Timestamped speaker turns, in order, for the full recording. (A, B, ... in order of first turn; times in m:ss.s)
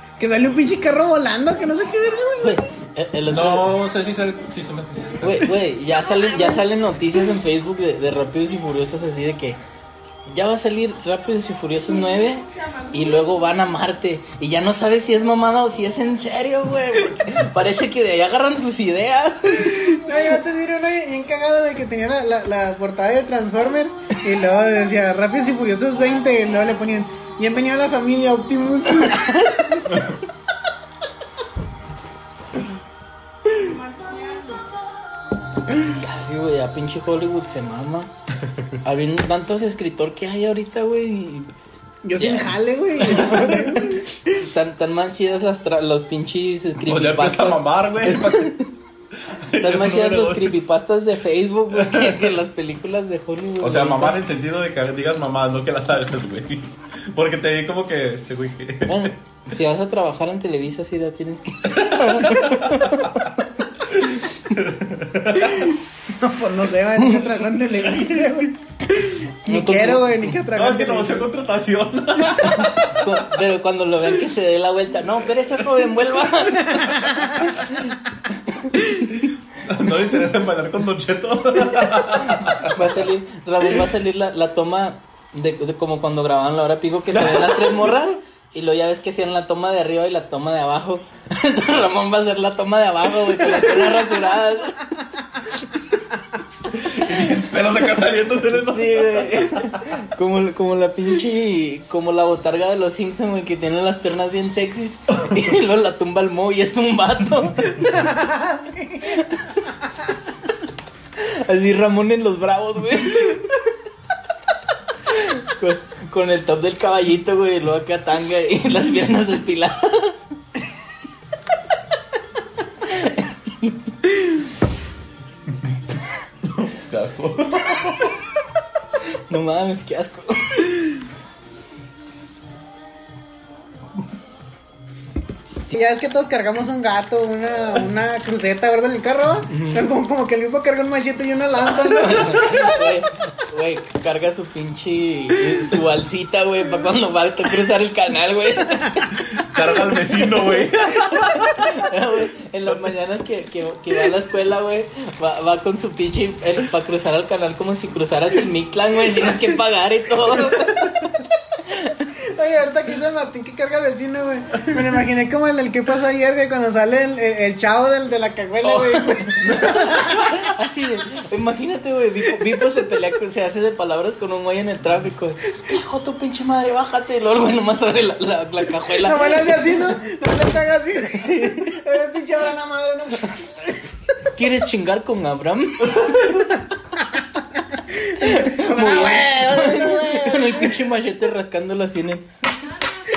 0:00.2-0:02.6 A
0:02.4-0:03.7 B
0:03.3-0:05.6 C
0:05.2-0:09.6 B
0:10.3-0:19.9 B
0:19.6-0:29.9 A
0:35.7-0:38.1 B
0:38.8-0:41.5 B
0:42.0-0:44.2 A
0:42.2-0:48.7 B
0:46.8-0:48.6 C
0:49.2-0:50.6 C
0:49.6-0:54.2 B
0:51.7-0:52.4 C
0:53.6-0:59.1 C
0:58.8-1:03.2 B
1:01.7-1:03.3 C
1:03.8-1:05.8 C
1:06.2-1:11.3 A
1:09.4-1:10.4 B
1:10.5-1:13.2 C
1:12.4-1:18.9 B
1:17.0-1:17.3 A
1:18.8-1:22.9 C
1:22.2-1:35.9 B
1:27.1-1:28.1 C
1:33.4-1:33.9 C
1:36.6-1:39.9 C
1:38.5-1:48.1 B
1:47.9-1:49.0 A
1:49.0-1:49.7 B
1:51.2-1:53.7 B
1:55.1-2:00.2 B
2:02.8-2:04.5 B
2:06.4-2:08.1 C
2:09.3-2:11.0 B
2:15.7-2:22.9 A
2:19.5-2:19.8 B
2:21.7-2:29.6 B
2:29.1-2:31.9 C
2:30.2-2:42.1 B
2:32.7-2:33.0 C
2:40.3-2:41.1 C
2:42.3-2:50.1 A
2:48.6-2:50.5 C
2:49.4-2:59.8 B
2:59.0-3:03.8 A
3:04.3-3:06.6 B
3:08.0-3:10.8 A
3:08.2-3:12.2 B